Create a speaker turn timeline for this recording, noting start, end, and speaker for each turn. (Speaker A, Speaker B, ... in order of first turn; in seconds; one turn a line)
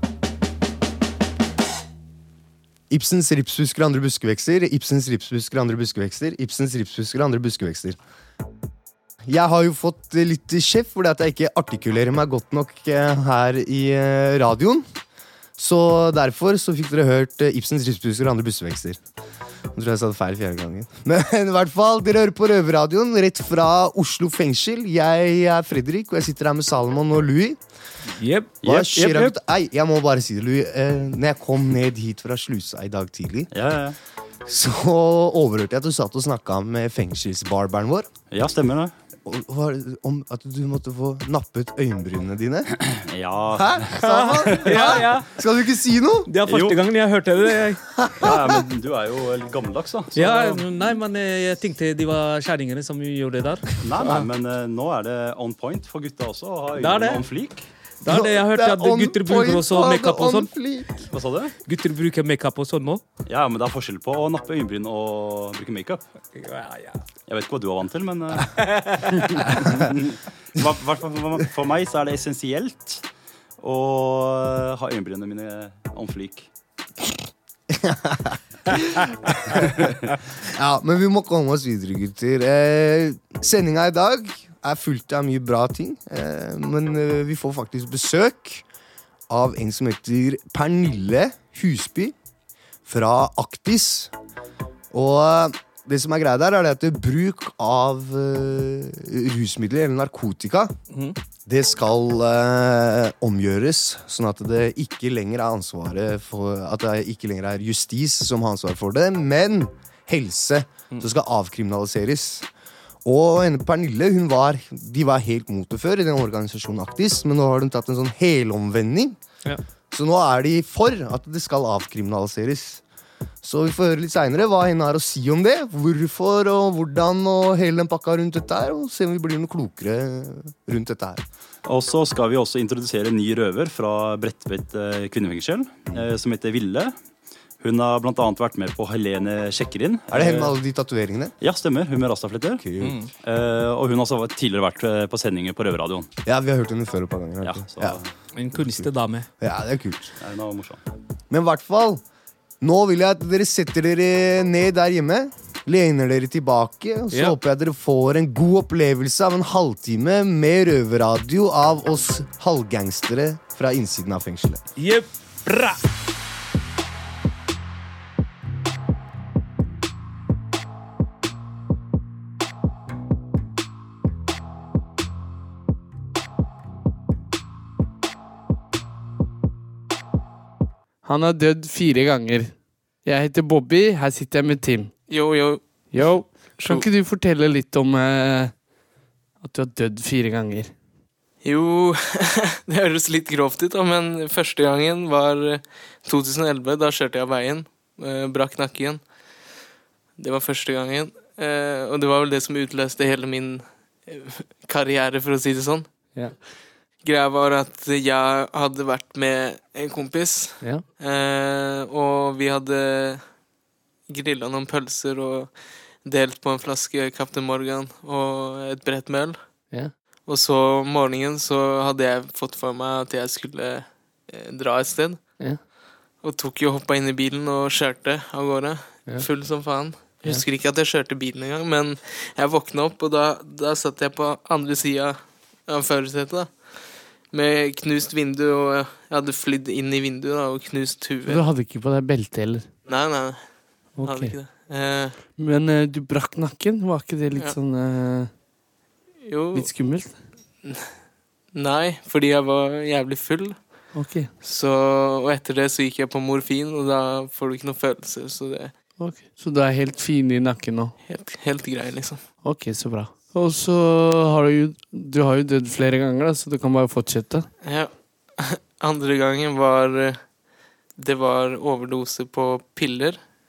Speaker A: 2.9-8.0
Speaker A: 9.3-14.9
Speaker A: 15.6-19.0
Speaker A: 19.8-27.6
Speaker B: 28.2-29.1
Speaker C: 28.6-29.4
Speaker A: 28.6-33.5
Speaker C: 33.5-34.0
Speaker A: 34.5-38.1
Speaker C: 38.3-38.9
Speaker A: 39.2-42.7
Speaker C: 43.0-45.1
Speaker A: 43.5-46.3
Speaker B: 44.0-45.3
Speaker B: 46.3-48.0
Speaker C: 46.4-46.9
Speaker C: 48.2-50.9
Speaker B: 50.1-54.3
Speaker C: 53.8-57.7
Speaker B: 56.8-57.2
Speaker B: 58.0-60.5
Speaker A: 58.1-60.9
Speaker C: 61.1-61.6
Speaker B: 61.6-63.0
Speaker C: 63.3-66.0
Speaker B: 66.3-67.0
Speaker C: 67.3-73.0
Speaker B: 68.7-69.0
Speaker C: 73.6-76.5
Speaker A: 77.8-78.7
Speaker A: 80.5-88.7
Speaker A: 89.3-92.1
Speaker A: 92.8-94.1
Speaker A: 94.9-100.7
Speaker B: 100.9-101.2
Speaker A: 101.5-112.5
Speaker A: 113.0-119.2
Speaker A: 119.9-122.8
Speaker A: 123.4-131.2
Speaker C: 131.7-136.9
Speaker C: 137.6-140.6
Speaker A: 140.1-141.3
Speaker C: 141.4-146.1
Speaker A: 142.6-143.0
Speaker B: 142.8-143.1
Speaker A: 146.2-148.0
Speaker C: 147.4-148.1
Speaker B: 148.3-149.3
Speaker A: 148.6-150.1
Speaker C: 150.2-150.8
Speaker A: 151.3-152.0
Speaker A: 152.6-164.6
Speaker B: 157.1-157.4
Speaker B: 164.8-165.8
Speaker D: 181.0-188.7
Speaker E: 185.1-186.9
Speaker D: 189.4-190.8
Speaker E: 191.4-199.5
Speaker E: 200.2-213.5
Speaker D: 206.1-206.4
Speaker D: 210.6-210.9
Speaker E: 214.1-225.6
Speaker D: 219.7-219.9
Speaker E: 226.2-241.5
Speaker D: 229.1-230.4
Speaker D: 241.2-242.8
Speaker E: 242.8-245.2
Speaker D: 243.9-244.4
Speaker D: 245.4-248.4
Speaker E: 249.2-258.8
Speaker D: 249.5-250.3
Speaker D: 253.9-254.3
Speaker D: 259.0-261.0
Speaker E: 261.1-262.3
Speaker D: 262.4-267.5
Speaker E: 267.6-273.2